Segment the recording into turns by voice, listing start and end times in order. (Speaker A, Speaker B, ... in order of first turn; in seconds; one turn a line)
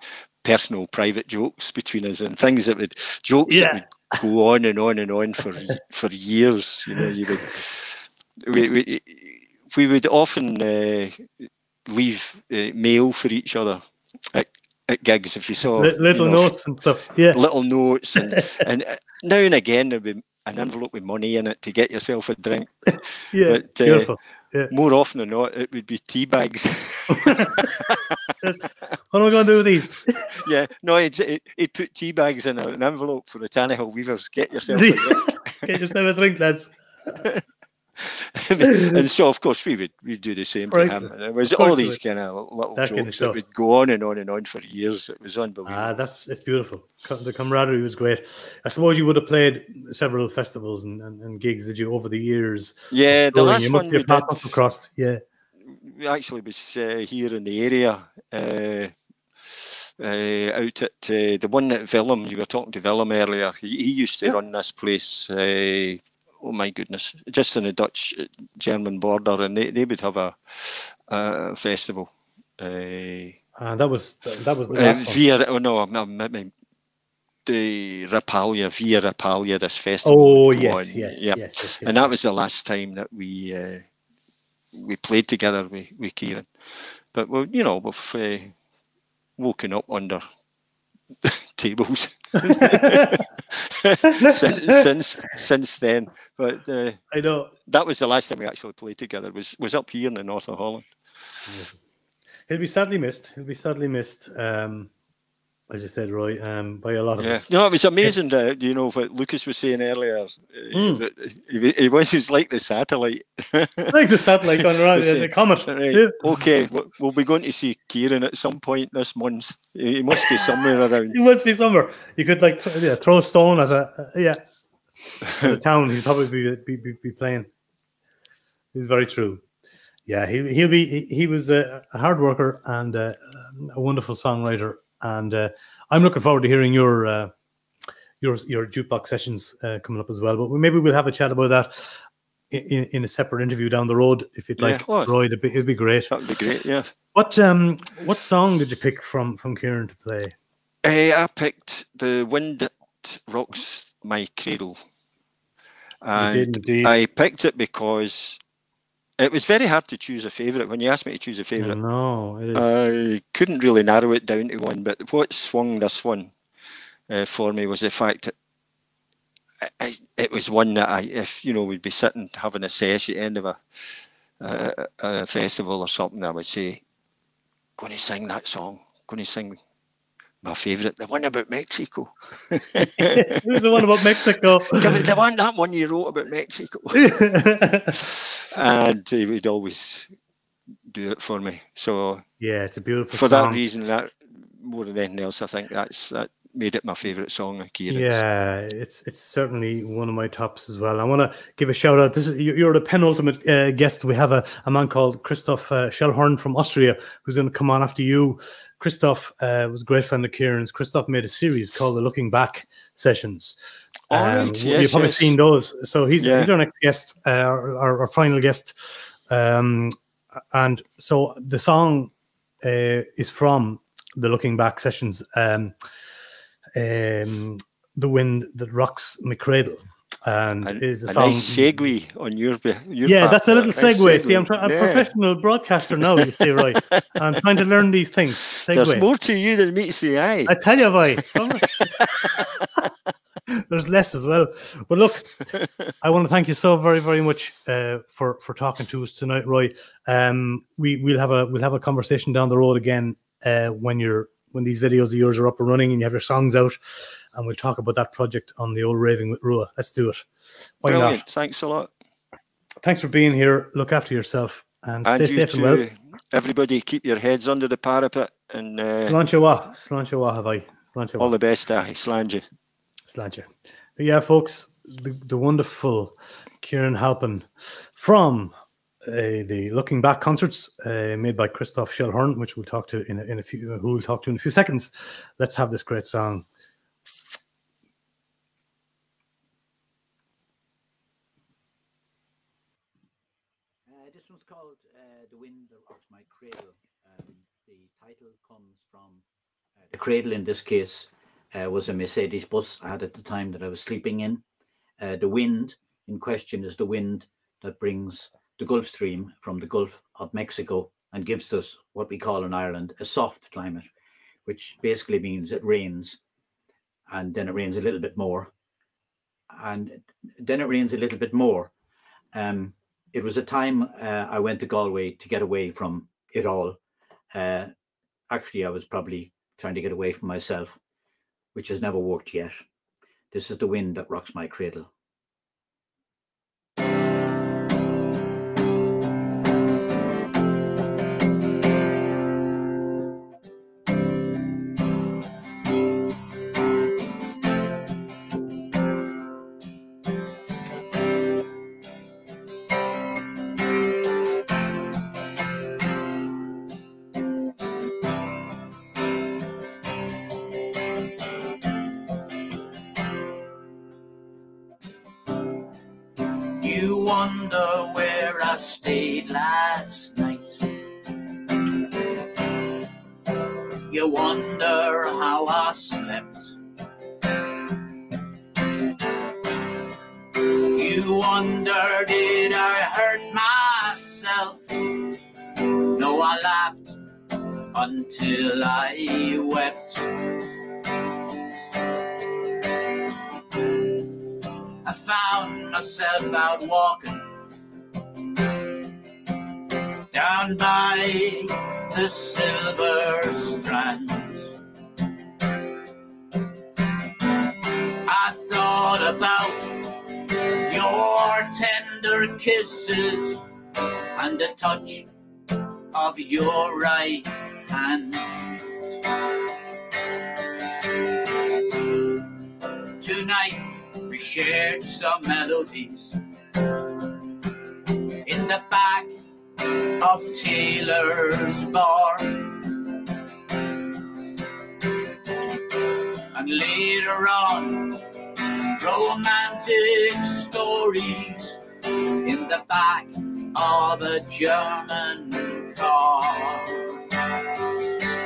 Speaker A: 0.4-13.8
Speaker B: 3.5-3.8
Speaker A: 14.3-16.6
Speaker B: 15.8-17.4
Speaker A: 17.3-24.1
Speaker B: 18.1-18.4
Speaker B: 23.3-24.7
Speaker A: 24.7-28.0
Speaker B: 28.4-30.3
Speaker A: 30.3-35.8
Speaker B: 34.7-36.8
Speaker A: 38.0-46.0
Speaker B: 40.7-42.0
Speaker B: 42.7-43.4
Speaker B: 45.6-55.2
Speaker A: 52.9-54.6
Speaker A: 55.7-58.9
Speaker A: 59.5-73.4
Speaker B: 73.6-75.2
Speaker A: 74.7-76.5
Speaker A: 77.5-83.9
Speaker B: 80.0-82.1
Speaker A: 84.8-88.5
Speaker A: 89.4-90.2
Speaker A: 91.2-97.1
Speaker B: 92.5-93.0
Speaker B: 94.2-94.5
Speaker B: 97.1-97.5
Speaker A: 97.7-101.0
Speaker B: 101.5-101.8
Speaker B: 102.5-104.9
Speaker B: 105.7-107.5
Speaker A: 107.2-113.9
Speaker B: 110.7-111.0
Speaker B: 113.9-116.3
Speaker A: 114.6-121.2
Speaker B: 121.1-124.4
Speaker B: 125.3-127.5
Speaker B: 128.7-129.4
Speaker B: 130.1-137.3
Speaker B: 138.2-142.0
Speaker B: 142.5-146.2
Speaker A: 144.6-145.2
Speaker A: 146.1-146.9
Speaker B: 147.1-150.3
Speaker A: 150.8-154.8
Speaker A: 156.0-158.4
Speaker B: 156.1-156.9
Speaker A: 159.2-161.8
Speaker B: 161.6-162.7
Speaker A: 162.5-166.3
Speaker A: 167.1-168.3
Speaker A: 169.7-173.6
Speaker A: 174.4-176.8
Speaker A: 177.8-179.6
Speaker A: 180.4-183.9
Speaker B: 183.2-185.0
Speaker A: 184.7-187.2
Speaker B: 187.0-187.8
Speaker A: 188.0-190.1
Speaker A: 190.9-192.2
Speaker B: 192.4-193.6
Speaker A: 193.1-198.2
Speaker B: 197.9-213.6
Speaker A: 214.1-215.4
Speaker B: 214.1-219.9
Speaker A: 216.2-216.5
Speaker B: 220.5-222.1
Speaker B: 222.6-225.7
Speaker B: 226.8-231.9
Speaker A: 230.6-235.1
Speaker B: 233.0-239.1
Speaker A: 236.2-237.0
Speaker A: 238.6-240.6
Speaker B: 240.5-241.9
Speaker A: 241.8-242.3
Speaker B: 243.7-245.4
Speaker B: 246.0-260.2
Speaker B: 260.8-261.2
Speaker A: 260.8-261.9
Speaker B: 262.8-265.8
Speaker A: 265.0-269.2
Speaker B: 269.0-271.3
Speaker A: 271.2-272.4
Speaker B: 273.1-286.4
Speaker C: 293.9-299.2
Speaker C: 299.9-304.4
Speaker C: 305.0-313.9
Speaker C: 314.4-316.2
Speaker C: 317.1-318.5
Speaker C: 319.5-321.7
Speaker C: 322.3-326.8
Speaker C: 327.3-327.7
Speaker C: 328.3-330.7
Speaker C: 331.5-332.6
Speaker C: 333.3-334.9
Speaker D: 366.6-370.7
Speaker D: 373.9-376.5
Speaker D: 380.5-385.0
Speaker D: 385.9-386.9
Speaker D: 387.7-390.3
Speaker D: 394.8-397.3
Speaker D: 400.1-404.5
Speaker D: 408.0-413.4
Speaker D: 414.1-415.1
Speaker D: 415.9-418.6
Speaker D: 423.0-426.1
Speaker D: 428.2-429.1
Speaker D: 430.0-432.6
Speaker D: 436.3-438.0
Speaker D: 438.8-446.9